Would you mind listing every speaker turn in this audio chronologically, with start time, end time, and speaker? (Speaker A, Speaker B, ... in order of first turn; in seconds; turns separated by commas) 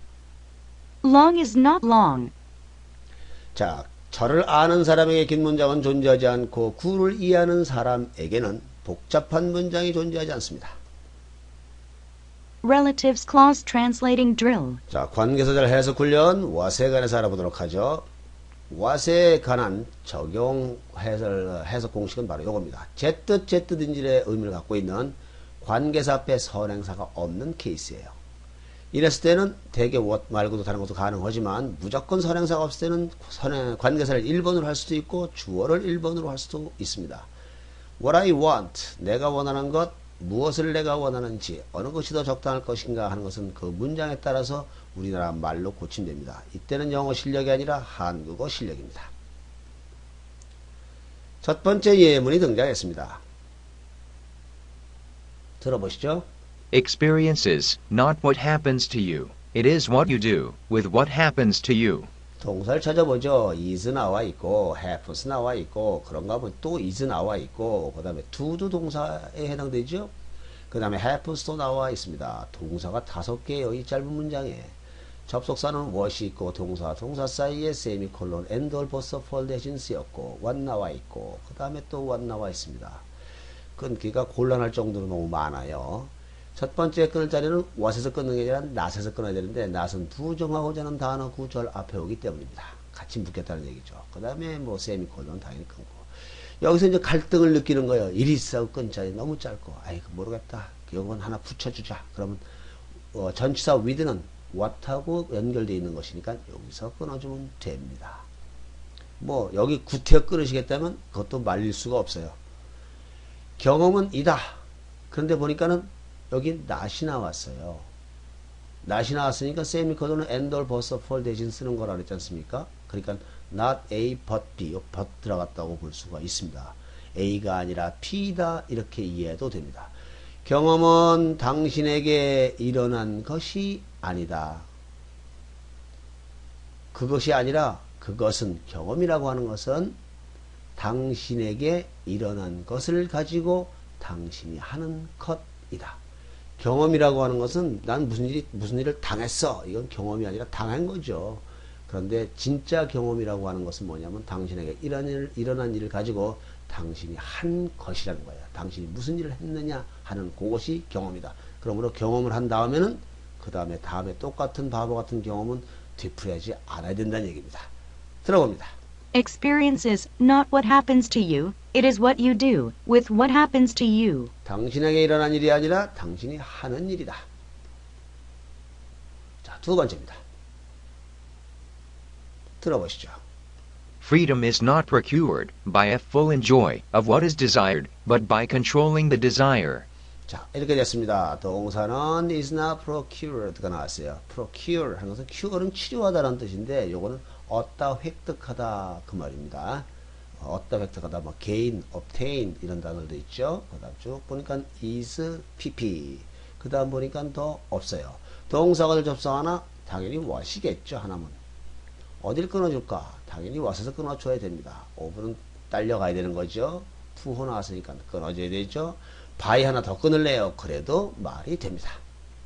Speaker A: 1.0-2.3, Speaker B: 3.5-10.8, Speaker A: 12.6-14.8, Speaker B: 14.9-18.1, Speaker B: 18.7-28.2, Speaker B: 28.9-37.3, Speaker B: 38.0-49.1, Speaker B: 51.4-53.2, Speaker B: 55.6-56.3, Speaker C: 56.7-62.1, Speaker B: 62.4-70.1, Speaker B: 70.7-74.8, Speaker B: 75.3-83.1, Speaker B: 83.8-102.4, Speaker B: 103.1-108.2, Speaker B: 109.2-112.4, Speaker B: 113.6-114.6, Speaker B: 115.1-117.9, Speaker B: 118.8-129.9, Speaker B: 130.4-134.7, Speaker B: 136.9-140.0, Speaker B: 140.8-146.0, Speaker B: 146.6-167.7, Speaker B: 168.2-168.7, Speaker A: 169.1-174.3, Speaker B: 174.4-177.2, Speaker B: 179.4-180.2, Speaker B: 182.6-183.2, Speaker C: 184.0-189.9, Speaker B: 190.3-211.4, Speaker B: 212.2-222.0